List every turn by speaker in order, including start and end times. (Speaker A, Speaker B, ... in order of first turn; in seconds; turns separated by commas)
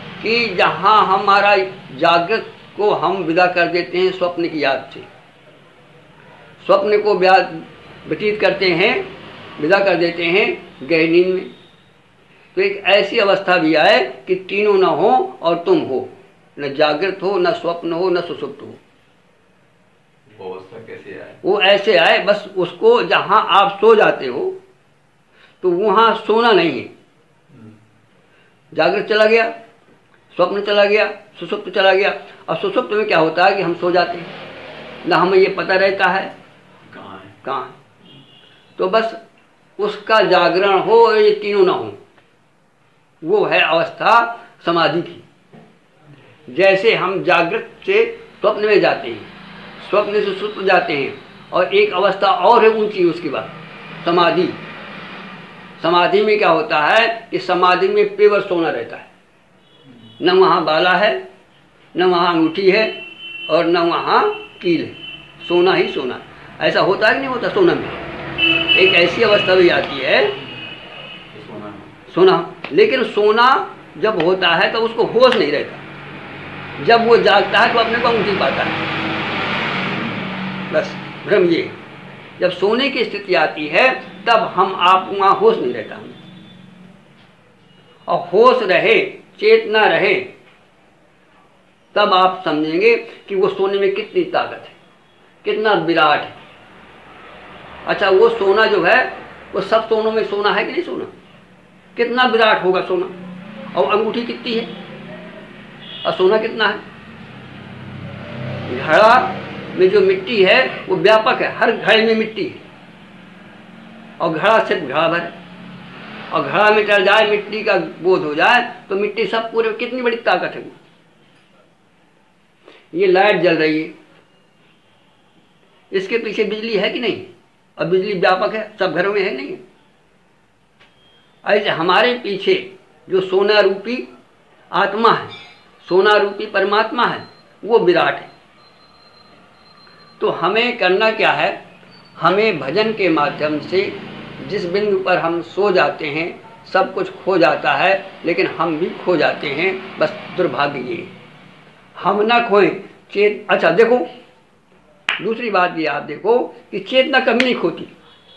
Speaker A: 0.2-5.0, Speaker A: 6.6-9.0, Speaker A: 9.6-11.5, Speaker A: 12.5-18.8, Speaker B: 20.3-21.4, Speaker A: 21.4-24.6, Speaker A: 25.6-26.9, Speaker B: 27.5-27.8, Speaker A: 28.7-29.5, Speaker A: 30.3-34.3, Speaker A: 35.0-36.3, Speaker B: 36.8-37.3, Speaker A: 37.4-37.8, Speaker A: 38.8-39.2, Speaker A: 39.8-42.0, Speaker A: 43.2-45.2, Speaker A: 46.5-49.3, Speaker A: 49.8-53.5, Speaker A: 54.0-54.6, Speaker A: 55.8-59.1, Speaker A: 60.2-61.2, Speaker A: 61.9-62.9, Speaker A: 63.5-68.0, Speaker A: 68.7-70.3, Speaker B: 71.3-71.9, Speaker A: 72.1-75.8, Speaker A: 76.8-78.8, Speaker B: 79.8-80.3, Speaker A: 80.7-81.7, Speaker A: 82.4-86.2, Speaker A: 88.1-90.3, Speaker A: 91.9-94.8, Speaker A: 95.4-96.3, Speaker A: 97.8-101.1, Speaker A: 102.0-103.1, Speaker A: 103.7-104.7, Speaker A: 106.0-106.8, Speaker A: 108.7-112.6, Speaker A: 114.2-115.3, Speaker A: 116.3-120.8, Speaker A: 122.9-123.9, Speaker A: 125.9-129.6, Speaker A: 131.4-134.1, Speaker A: 134.7-138.3, Speaker A: 140.2-141.6, Speaker A: 142.2-151.1, Speaker A: 152.0-154.1, Speaker A: 155.2-157.9